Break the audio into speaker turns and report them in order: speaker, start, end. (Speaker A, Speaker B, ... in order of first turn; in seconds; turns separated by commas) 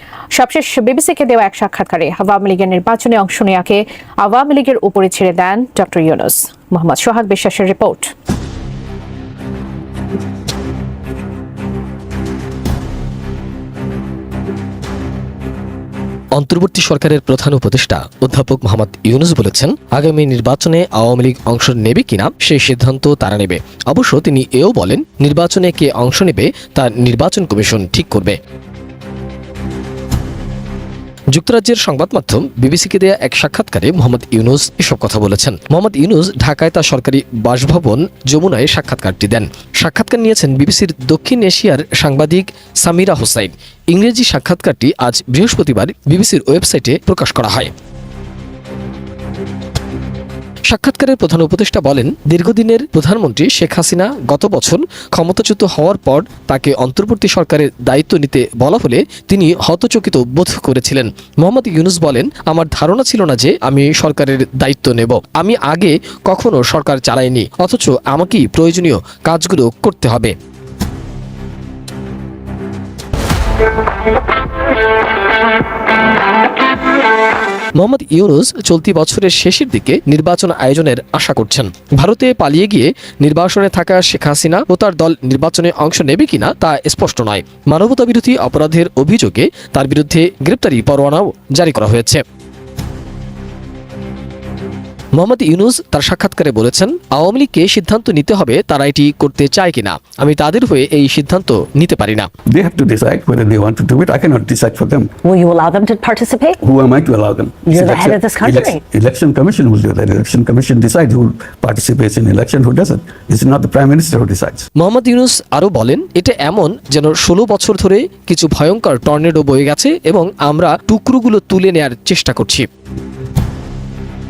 Speaker A: 0.3-8.1, Speaker B: 16.4-28.4, Speaker B: 31.3-47.7, Speaker B: 50.7-70.3, Speaker B: 77.8-92.2, Speaker B: 95.2-102.3, Speaker C: 102.5-105.2, Speaker D: 105.2-106.6, Speaker C: 106.6-114.6, Speaker D: 107.7-108.8, Speaker B: 114.8-122.7